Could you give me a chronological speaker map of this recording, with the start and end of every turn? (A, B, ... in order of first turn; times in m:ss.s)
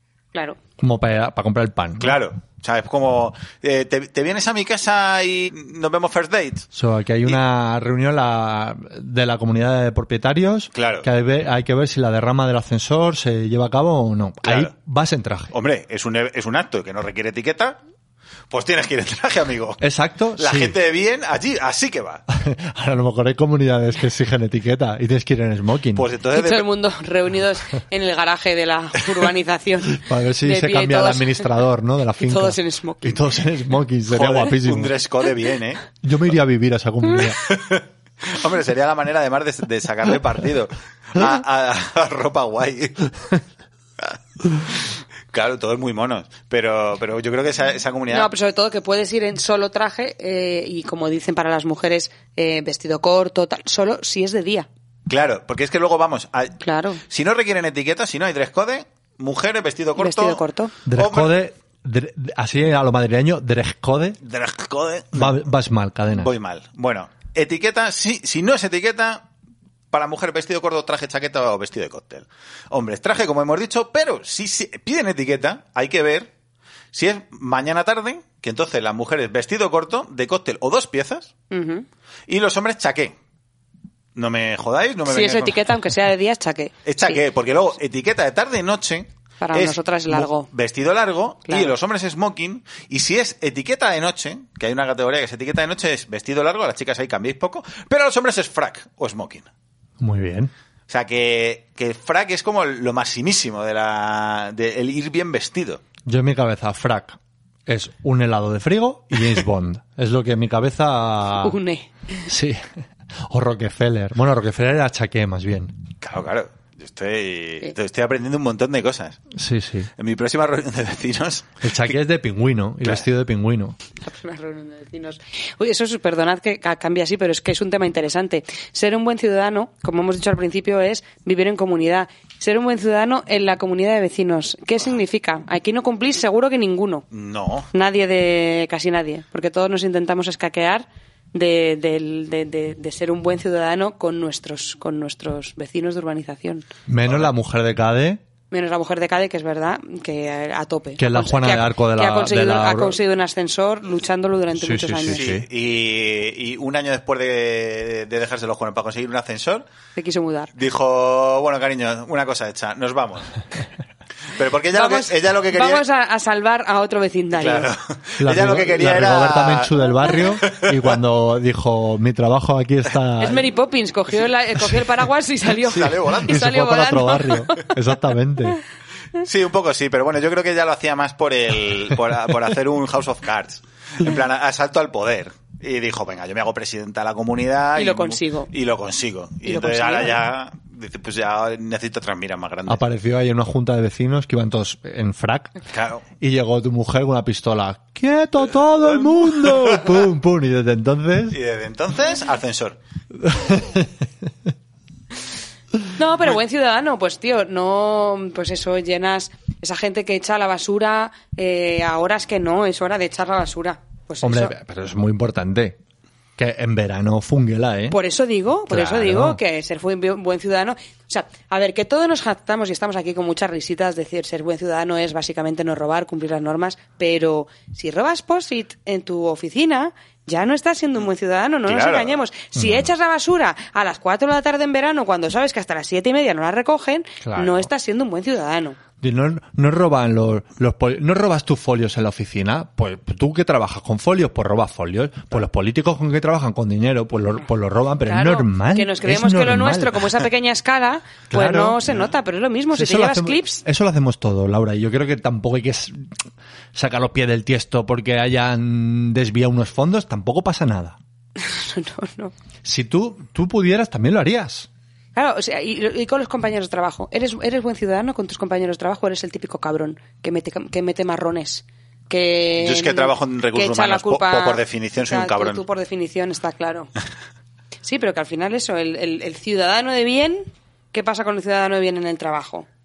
0:00.8-0:02.2 A
0:02.0-0:06.7 B
0:06.7-0:15.5 A
0:10.7-0:11.1 B
0:14.4-0:14.7 B
0:15.5-0:17.8 B
0:18.5-0:19.8 B
0:19.8-0:20.8 A
0:20.4-0:22.2 B
0:22.3-0:26.1 A
0:26.0-0:26.7 B
0:26.3-0:31.5 C
0:29.9-0:35.0 A
0:32.2-0:33.2 C
0:34.1-0:35.8 B
0:36.0-0:37.4 A
0:37.2-0:43.4 B
0:44.0-0:48.3 B
0:48.1-0:54.7 C
0:55.1-1:01.4 B
0:56.6-0:57.0 C
1:00.0-1:00.7 C
1:00.9-1:04.2 A
1:04.2-1:05.4 B
1:05.1-1:06.3 A
1:06.1-1:09.2 B
1:09.9-1:16.3 B
1:16.9-1:21.3 B
1:21.5-1:21.9 C
1:22.3-1:23.2 B
1:24.2-1:25.7 B
1:25.1-1:27.2 C
1:26.8-1:39.5 B
1:29.4-1:30.5 C
1:31.5-1:31.7 C
1:40.0-1:40.5 A
1:40.9-1:45.8 B
1:46.1-1:51.6 A
1:51.4-1:52.3 C
1:52.3-1:55.7 A
1:56.0-1:59.2 B
1:59.3-1:59.9 A
2:00.0-2:01.7 B
2:01.6-2:03.8 A
2:04.0-2:17.0 C
2:17.1-2:17.7 B
2:17.7-2:26.7 C
2:26.9-2:28.2 A
2:28.5-2:35.3 C
2:31.0-2:33.0 A
2:34.6-2:35.4 A
2:35.1-2:39.6 B
2:40.0-2:40.5 C
2:40.6-2:43.4 B
2:44.4-2:45.8 B
2:44.7-2:47.7 C
2:47.4-2:50.8 B
2:48.2-2:53.5 A
2:53.2-2:57.7 C
2:55.6-2:56.5 B
2:56.1-2:58.6 A
2:59.2-3:12.8 B
3:07.8-3:08.5 C
3:09.4-3:10.2 C
3:12.7-3:15.5 A
3:15.7-3:16.0 B
3:16.2-3:21.4 A
3:19.0-3:20.0 B
3:21.3-3:22.8 B
3:23.2-3:24.0 A
3:26.0-3:34.5 C
3:34.2-3:35.8 A
3:36.4-3:38.0 A
3:37.9-3:58.8 C
3:38.7-3:39.4 A
3:51.7-3:52.2 B
3:52.6-3:52.9 A
3:57.2-3:57.7 A
3:59.0-4:10.1 A
4:08.0-4:13.6 C
4:11.3-4:11.8 A
4:12.7-4:16.2 A
4:16.8-4:21.0 A
4:21.4-4:22.3 C
4:22.6-4:24.7 A
4:25.2-4:36.9 C
4:32.6-4:35.6 B
4:37.8-4:42.7 C